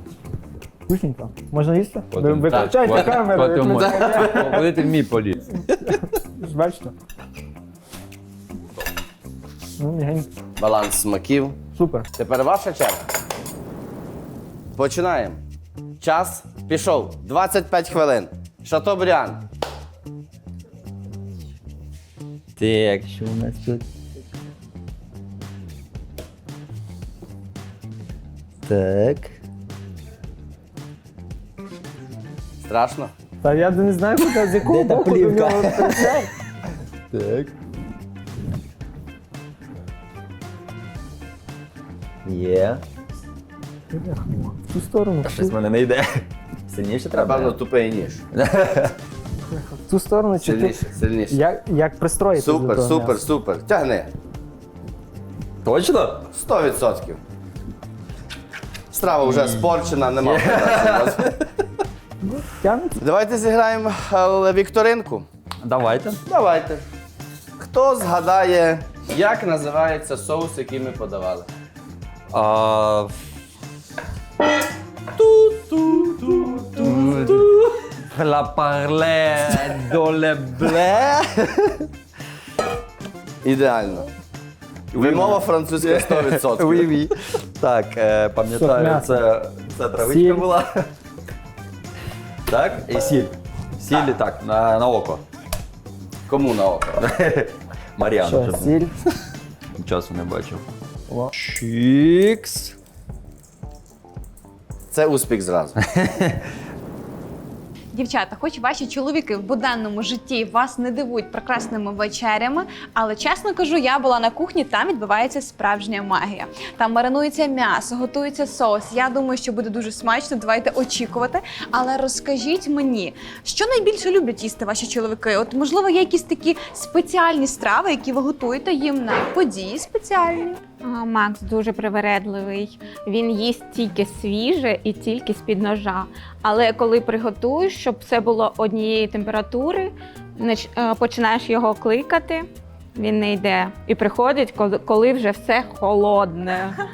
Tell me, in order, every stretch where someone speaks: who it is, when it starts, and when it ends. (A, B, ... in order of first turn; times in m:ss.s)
0:00.9-0:04.7 A
0:02.1-0:05.7 B
0:02.5-0:03.2 C
0:05.9-0:06.9 A
0:09.8-0:10.3 A
0:10.6-0:11.6 C
0:11.7-0:12.1 A
0:12.1-0:13.1 C
0:14.8-0:15.4 C
0:16.0-0:19.4 C
0:22.6-0:23.8 B
0:28.6-0:29.4 B
0:32.6-0:33.1 C
0:33.4-0:36.3 A
0:34.5-0:36.2 B
0:37.1-0:37.5 B
0:42.2-0:42.8 B
0:43.9-0:45.5 A
0:45.2-0:47.6 B
0:47.1-0:48.2 C
0:48.3-0:48.9 B
0:49.8-0:53.2 A
0:50.4-0:51.4 C
0:52.3-0:54.1 C
0:55.6-0:56.3 B
0:56.3-0:57.2 C
0:58.9-1:01.3 C
0:59.2-1:01.4 B
1:02.3-1:03.0 A
1:03.0-1:05.2 C
1:05.6-1:06.2 B
1:06.3-1:06.8 C
1:07.6-1:11.5 C
1:12.3-1:13.1 B
1:15.1-1:17.6 C
1:16.8-1:21.2 B
1:23.4-1:24.1 C
1:24.9-1:30.8 B
1:24.9-1:26.9 C
1:28.5-1:29.2 A
1:30.0-1:30.5 A
1:32.5-1:35.2 B
1:36.3-1:37.0 C
1:37.0-1:38.8 B
1:38.2-1:39.1 A
1:39.8-1:40.6 B
1:41.3-1:42.7 B
1:44.9-1:45.8 C
1:45.9-1:46.4 B
1:47.9-2:10.6 D
2:10.8-2:26.8 E